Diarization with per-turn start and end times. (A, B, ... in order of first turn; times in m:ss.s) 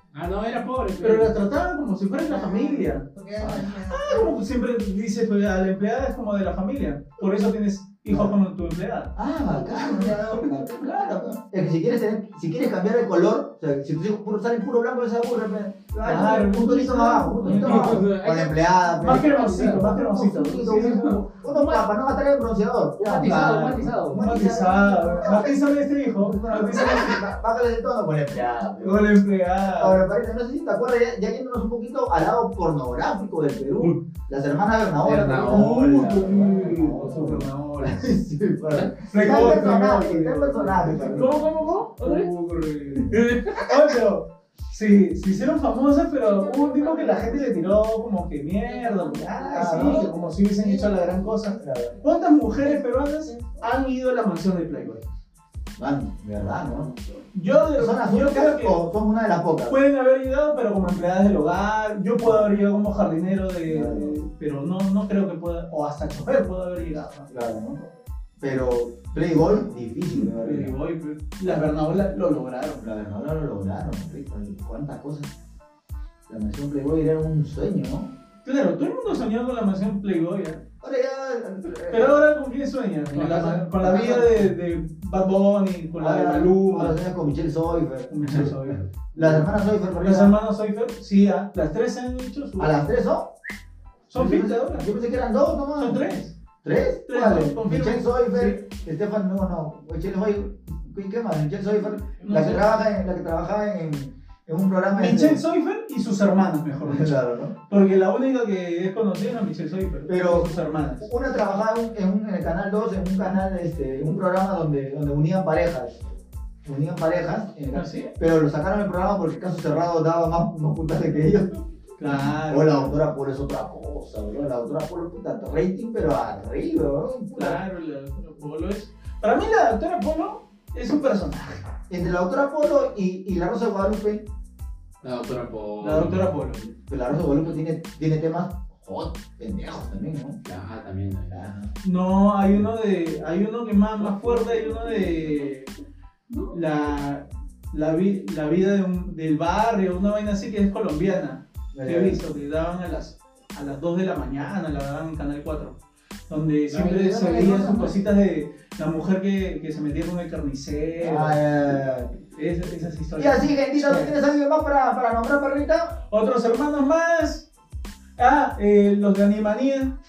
0:00.1-0:01.3 A
0:01.0-0:03.0 B
0:02.2-0:04.4 C
0:03.4-0:03.7 D
0:03.9-0:09.1 B
0:08.1-0:08.4 D
0:09.2-0:25.6 D
0:09.5-0:10.2 C
0:16.0-0:18.1 B
0:17.4-0:20.0 A
0:19.0-0:21.2 B
0:20.7-0:21.8 A
0:23.0-0:24.3 A
0:23.1-0:27.2 B
0:26.2-0:29.1 D
0:28.8-0:30.0 B
0:29.8-0:41.6 D
0:35.0-0:36.8 A
0:35.4-0:38.2 B
0:39.1-0:55.0 B
0:41.0-0:42.3 A
0:43.0-0:43.9 A
0:46.2-0:47.8 C
0:48.6-0:53.8 C
0:49.5-0:50.1 D
0:51.6-0:52.0 D
0:55.8-0:56.9 D
0:56.6-0:57.1 A
0:57.3-0:58.8 B
0:57.8-0:59.8 D
0:59.7-1:07.3 B
1:02.2-1:02.5 D
1:03.7-1:04.2 D
1:07.3-1:10.8 D
1:10.1-1:12.8 B
1:11.4-1:11.7 D
1:12.8-1:15.3 D
1:16.3-1:18.1 D
1:18.4-1:20.6 B
1:20.8-1:22.2 D
1:21.9-1:27.0 B
1:23.1-1:24.5 D
1:26.0-1:30.4 D
1:28.1-1:29.5 B
1:30.0-1:32.9 B
1:32.6-1:33.3 D
1:34.1-1:34.8 B
1:34.1-1:45.4 D
1:35.8-1:36.3 B
1:37.1-1:38.6 B
1:42.2-1:42.8 B
1:44.9-1:47.1 B
1:46.8-1:47.5 D
1:47.7-1:51.1 B
1:50.1-1:56.0 D
1:56.6-2:07.6 D
1:57.7-1:58.1 B
2:02.0-2:02.9 B
2:07.4-2:11.6 B
2:11.9-2:14.2 D
2:15.0-2:16.3 A
2:15.8-2:16.7 B
2:16.9-2:20.4 D
2:20.4-2:21.5 A
2:21.3-2:21.7 D
2:21.8-2:25.7 B
2:26.5-2:35.8 B
2:31.7-2:32.2 D
2:36.3-2:41.4 B
2:36.7-2:37.9 D
2:41.0-2:42.1 D
2:42.3-2:44.2 B
2:43.2-2:46.0 D
2:46.1-2:47.5 B
2:48.2-2:49.9 B